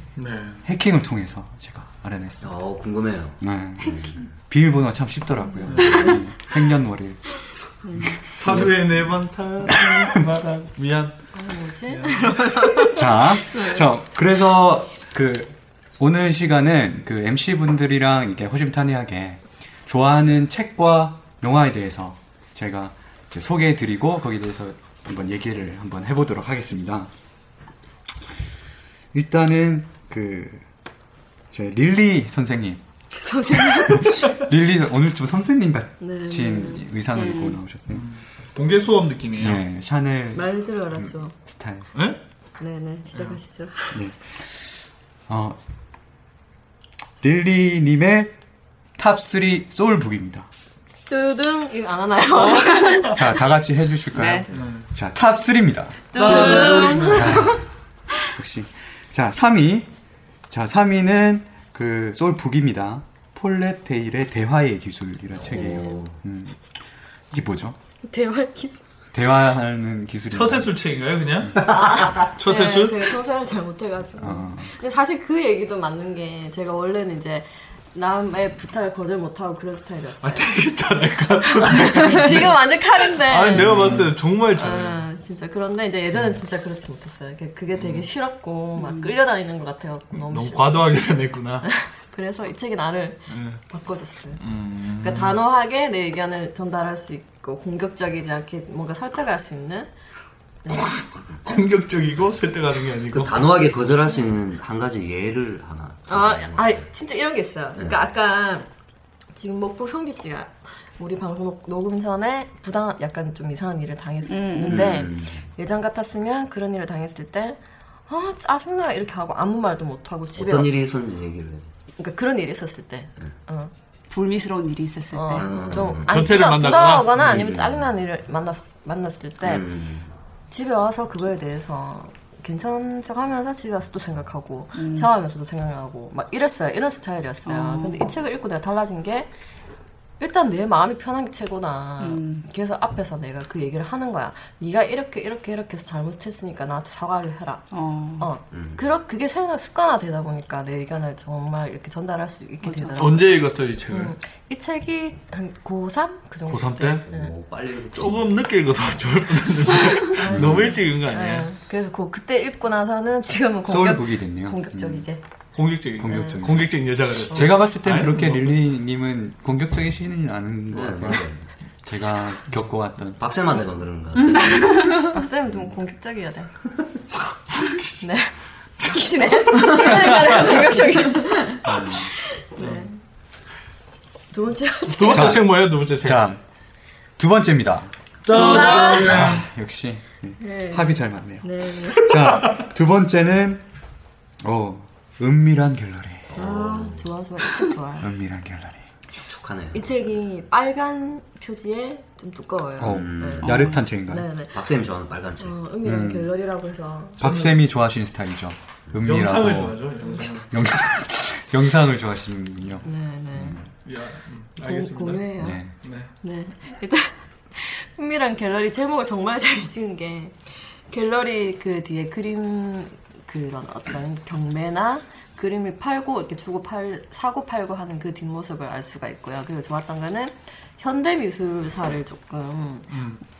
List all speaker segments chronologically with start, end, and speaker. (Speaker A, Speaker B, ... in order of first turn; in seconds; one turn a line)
Speaker A: 0.1-0.6
Speaker B: 0.7-2.5
Speaker C: 2.4-4.2
Speaker B: 3.4-7.5
Speaker D: 5.5-6.2
Speaker A: 5.7-6.2
Speaker D: 7.8-8.2
Speaker B: 8.0-8.7
Speaker A: 8.4-11.2
Speaker B: 9.8-10.0
Speaker D: 11.3-12.9
Speaker A: 11.9-12.8
Speaker B: 12.9-27.1
Speaker B: 29.1-30.6
Speaker B: 31.5-32.8
Speaker D: 33.1-34.2
Speaker B: 33.5-38.0
Speaker D: 36.0-36.9
Speaker E: 37.1-37.6
Speaker A: 37.9-39.6
Speaker B: 39.4-41.9
Speaker D: 40.3-41.3
Speaker D: 42.6-44.0
Speaker B: 43.9-45.6
Speaker B: 47.2-48.3
Speaker B: 49.0-50.5
Speaker D: 51.1-53.2
Speaker E: 52.5-53.0
Speaker B: 53.1-57.6
Speaker E: 54.1-54.5
Speaker A: 54.5-54.9
Speaker D: 56.1-57.6
Speaker A: 56.1-57.5
Speaker E: 56.2-57.1
Speaker B: 58.3-59.9
Speaker B: 60.5-66.7
Speaker C: 65.4-66.2
Speaker D: 65.5-66.0
Speaker B: 67.3-67.7
Speaker D: 68.1-68.8
Speaker B: 69.1-70.7
Speaker A: 70.3-73.2
Speaker D: 71.8-80.5
Speaker B: 74.2-74.7
Speaker A: 80.2-85.0
Speaker D: 81.7-91.1
Speaker B: 83.5-84.1
Speaker A: 87.7-88.0
Speaker E: 88.8-89.1
Speaker A: 90.1-91.7
Speaker D: 91.6-94.4
Speaker A: 93.3-93.6
Speaker A: 94.4-95.4
Speaker D: 95.0-99.9
Speaker D: 100.6-101.0
Speaker A: 100.7-103.5
Speaker C: 103.1-106.8
Speaker D: 106.1-108.7
Speaker D: 109.3-120.7
Speaker E: 114.3-115.1
Speaker C: 114.7-115.5
Speaker C: 120.3-121.7
Speaker D: 122.0-123.7
Speaker E: 124.1-125.9
Speaker D: 125.1-129.6
Speaker C: 125.3-126.3
Speaker A: 126.1-127.2
Speaker C: 127.2-127.9
Speaker C: 129.4-130.1
Speaker D: 130.5-139.3
Speaker E: 134.7-135.1
Speaker E: 137.4-138.0
Speaker D: 140.2-157.3
Speaker E: 142.0-142.4
Speaker E: 147.7-148.3
Speaker C: 148.5-148.8
Speaker E: 152.6-153.1
Speaker A: 153.0-154.1
Speaker A: 156.5-157.0
Speaker C: 157.1-158.4
Speaker A: 157.9-161.5
Speaker D: 160.1-165.2
Speaker B: 160.2-160.7
Speaker B: 163.7-165.0
Speaker A: 165.5-168.5
Speaker B: 166.0-171.3
Speaker D: 166.1-166.4
Speaker C: 170.7-171.4
Speaker B: 171.8-173.2
Speaker C: 173.2-175.0
Speaker E: 174.2-175.1
Speaker D: 174.8-176.5
Speaker D: 178.0-182.9
Speaker A: 179.5-180.6
Speaker B: 181.6-182.1
Speaker A: 182.6-182.9
Speaker D: 184.3-185.4
Speaker A: 184.9-186.3
Speaker B: 185.1-186.4
Speaker B: 187.2-187.9
Speaker A: 188.2-189.5
Speaker D: 188.3-189.1
Speaker B: 188.5-193.6
Speaker D: 190.4-192.4
Speaker B: 194.4-196.3
Speaker C: 196.3-197.1
Speaker D: 196.3-198.1
Speaker B: 198.0-198.8
Speaker C: 199.1-199.9
Speaker D: 199.7-204.5
Speaker B: 202.8-204.3
Speaker C: 202.8-203.5
Speaker E: 203.4-203.9
Speaker C: 204.5-205.6
Speaker D: 205.4-207.2
Speaker B: 205.8-206.3
Speaker B: 207.2-209.9
Speaker A: 207.2-207.6
Speaker A: 209.0-210.5
Speaker B: 210.5-213.7
Speaker D: 212.8-213.6
Speaker A: 213.8-216.1
Speaker D: 214.6-215.6
Speaker B: 215.4-215.7
Speaker D: 216.2-232.9
Speaker A: 232.9-233.2